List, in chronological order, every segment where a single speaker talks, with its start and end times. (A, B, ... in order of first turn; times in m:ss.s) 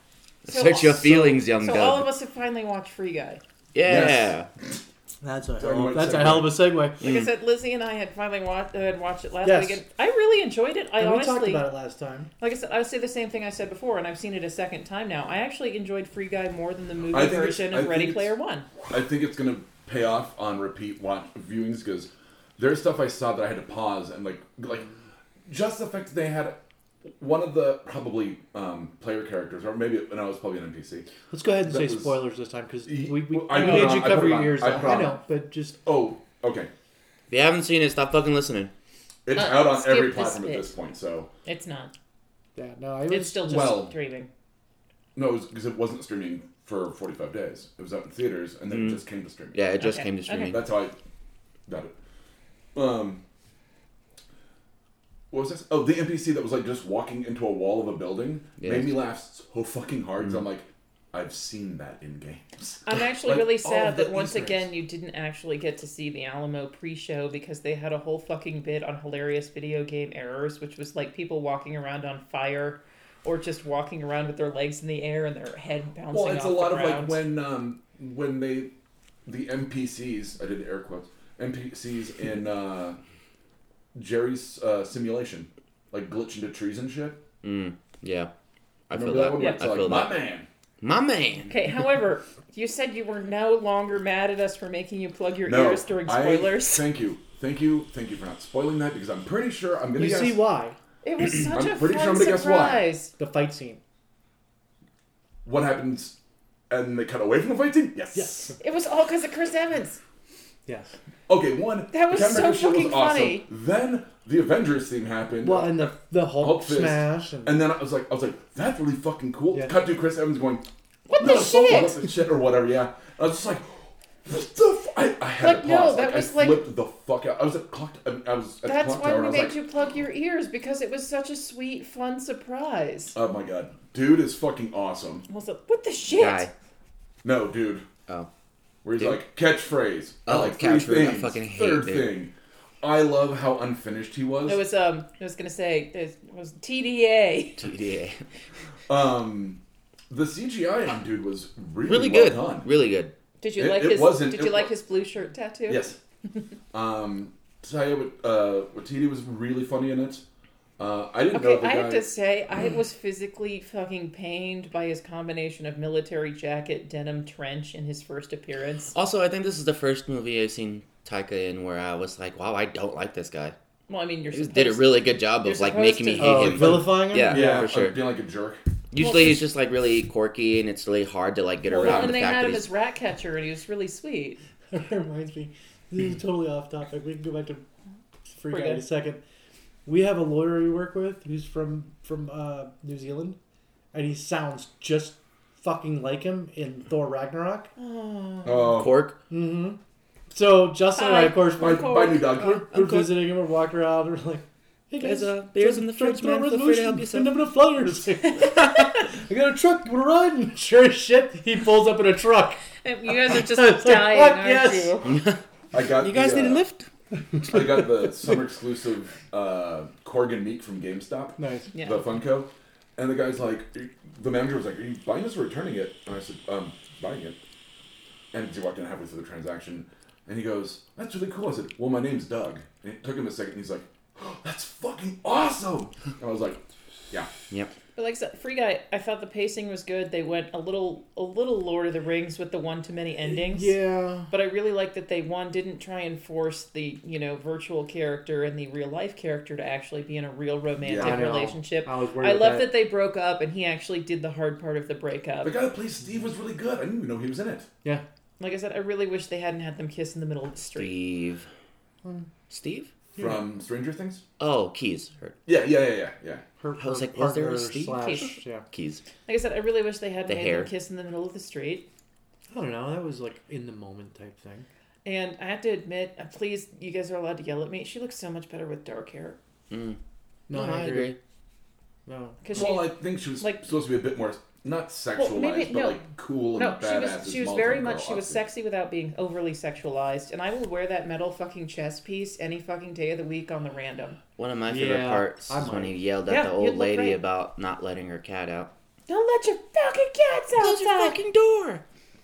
0:00.4-0:02.1 A
0:00.5-0:03.4 B
0:03.7-0:04.5 A
0:03.8-0:04.4 C
0:05.2-0:07.0 D
0:05.6-0:06.6 C
0:07.0-0:07.3 A
0:07.0-0:11.7 B
0:09.4-0:09.8 D
0:11.0-0:12.3 D
0:12.4-0:18.7 B
0:17.1-0:18.3 C
0:18.9-0:24.9 C
0:25.5-0:26.6 C
0:27.2-0:31.1 C
0:31.3-0:35.8 D
0:31.6-0:32.2 C
0:32.8-0:35.2 C
0:33.5-0:34.1 B
0:35.8-0:36.7 C
0:37.3-0:38.7 A
0:39.2-0:41.3 C
0:39.3-0:40.7 B
0:41.4-0:41.9 B
0:42.6-0:43.8 D
0:43.1-0:44.3 B
0:43.4-0:44.0 C
0:45.1-0:49.6 C
0:48.7-0:49.0 A
0:49.5-0:50.6 A
0:49.8-0:50.5 B
0:50.5-0:51.0 C
0:51.7-0:51.9 C
0:52.7-0:53.2 C
0:55.3-1:04.7 C
0:58.6-0:59.0 A
1:02.8-1:17.2 B
1:16.1-1:18.7 C
1:19.2-1:23.0 C
1:23.9-1:27.2 C
1:27.4-1:28.3 A
1:28.9-1:30.2 A
1:28.9-1:30.5 C
1:29.3-1:29.6 B
1:30.8-1:31.5 A
1:31.5-1:36.8 B
1:35.4-1:40.4 C
1:39.9-1:40.8 D
1:41.0-1:43.1 B
1:41.4-1:42.8 C
1:43.2-1:43.8 D
1:45.4-1:46.2 C
1:46.7-1:48.5 C
1:48.1-1:48.5 D
1:48.6-1:50.0 B
1:50.6-1:51.0 D
1:51.3-2:03.7 C
1:51.9-1:53.5 B
1:55.4-1:57.6 D
2:01.1-2:02.0 B
2:04.2-2:09.6 C
2:05.4-2:06.6 B
2:08.6-2:13.2 B
2:13.1-2:15.2 C
2:15.3-2:16.5 B
2:16.1-2:16.5 A
2:17.2-2:17.8 C
2:18.8-2:24.6 C
2:19.0-2:19.2 A
2:20.2-2:22.1 A
2:24.4-2:27.7 B
2:27.6-2:28.2 A
2:28.9-2:32.7 C
2:31.8-2:33.1 A
2:33.4-2:35.9 B
2:33.6-2:34.7 C
2:35.7-2:36.0 C
2:36.7-2:40.2 C
2:40.8-2:42.0 C
2:41.3-2:48.9 B
2:48.9-2:53.5 A
2:53.9-2:56.6 B
2:54.3-2:58.0 A
2:56.2-2:57.7 D
2:56.6-2:58.6 C
2:58.9-3:02.7 A
2:59.0-2:59.4 B
3:01.6-3:04.4 B
3:04.7-3:07.6 D
3:08.3-3:09.2 D
3:08.5-3:08.8 B
3:09.8-3:13.4 D
3:13.9-3:17.7 D
3:17.8-3:18.8 B
3:18.4-3:19.0 C
3:18.7-3:19.2 A
3:19.3-3:19.8 D
3:20.3-3:35.1 D
3:20.9-3:22.4 B
3:21.6-3:22.7 C
3:22.7-3:23.3 A
3:25.0-3:27.4 A
3:32.8-3:35.1 B
3:35.0-3:36.9 A
3:35.7-3:36.6 C
3:37.2-3:38.4 D
3:37.4-3:47.4 C
3:41.4-3:41.7 D
3:41.7-3:42.1 B
3:48.3-3:57.3 C
3:58.0-4:03.8 B
4:03.3-4:04.3 D
4:04.3-4:15.5 B
4:10.8-4:11.3 C
4:11.0-4:12.7 D
4:15.4-4:17.7 C
4:18.4-4:21.0 B
4:20.7-4:21.5 A
4:22.5-4:22.9 A
4:23.2-4:23.4 D
4:23.2-4:24.2 C
4:24.4-4:25.4 A
4:25.4-4:26.4 C
4:26.6-4:28.6 D
4:26.8-4:29.0 A
4:28.0-4:28.4 B
4:29.2-4:31.9 B
4:30.3-4:30.7 A
4:32.5-4:34.6 D
4:35.0-4:39.4 B
4:39.7-4:40.0 A
4:40.5-4:41.2 D
4:40.5-4:41.2 A
4:42.1-4:42.4 D
4:42.4-4:43.6 B
4:42.5-4:48.4 C
4:45.2-4:46.0 B
4:46.6-4:54.2 B
4:54.4-4:58.7 A
4:54.7-4:56.0 D
4:56.3-4:57.2 B
4:59.1-5:01.2 B
5:00.5-5:01.8 A